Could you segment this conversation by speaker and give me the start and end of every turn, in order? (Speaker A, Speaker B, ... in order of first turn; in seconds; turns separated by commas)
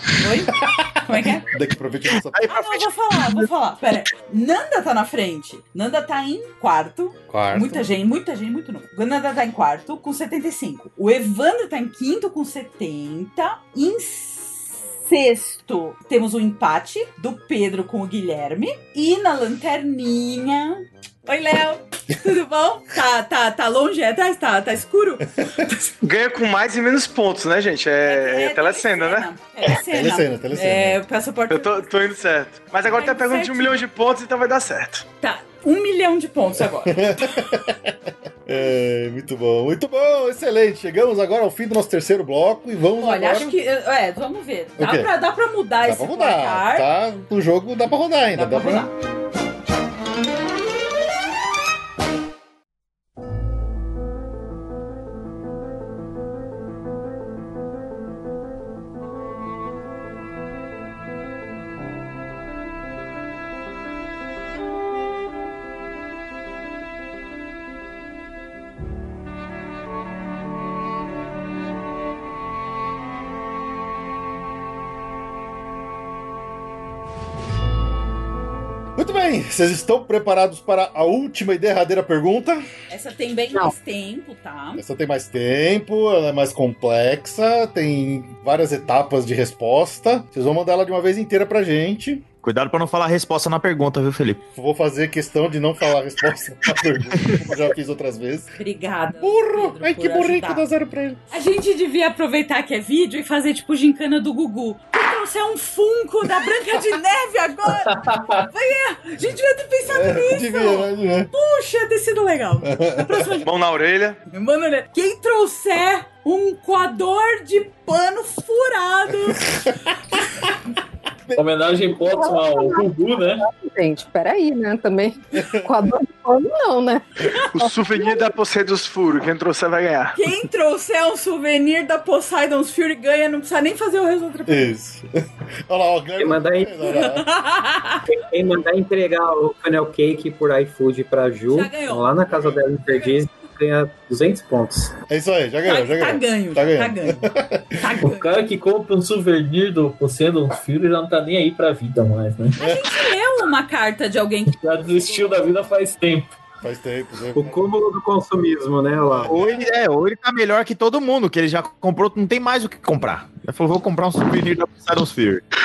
Speaker A: 0.2-1.5, Speaker B: 1.5-2.5, Speaker C: 2.2-3.5, Speaker A: 2.5-25.9, Speaker B: 7.3-7.8, Speaker D: 26.0-29.3, Speaker A: 28.0-32.1, Speaker B: 29.9-31.0, Speaker D: 31.5-35.0, Speaker A: 32.8-33.8, Speaker A: 35.2-37.2, Speaker B: 36.9-37.9, Speaker B: 38.5-43.5, Speaker A: 43.0-46.9, Speaker B: 44.8-45.1, Speaker B: 45.9-48.9, Speaker A: 48.3-48.9, Speaker B: 79.0-82.6, Speaker A: 82.9-84.8, Speaker B: 84.8-92.2, Speaker C: 92.4-94.4, Speaker B: 94.6-98.5, Speaker A: 98.6-100.7, Speaker B: 99.2-101.2, Speaker A: 101.3-113.5, Speaker E: 107.9-108.4, Speaker B: 109.9-111.3, Speaker B: 112.7-113.4, Speaker D: 113.4-114.2, Speaker A: 114.3-119.6, Speaker E: 121.4-123.4, Speaker F: 122.0-128.4, Speaker B: 125.4-125.7, Speaker D: 127.5-130.3, Speaker A: 130.2-134.8, Speaker B: 134.5-135.1, Speaker B: 135.7-137.3, Speaker G: 136.2-136.8, Speaker A: 136.8-138.0, Speaker G: 138.1-144.9, Speaker A: 141.5-142.2, Speaker B: 142.3-142.6, Speaker A: 142.9-143.2, Speaker B: 145.1-147.8, Speaker A: 145.7-148.3, Speaker E: 148.0-152.6, Speaker A: 152.6-155.6, Speaker B: 152.6-152.8, Speaker E: 154.5-156.4, Speaker B: 156.6-157.7, Speaker G: 157.3-159.3, Speaker B: 159.1-159.4, Speaker C: 159.3-165.4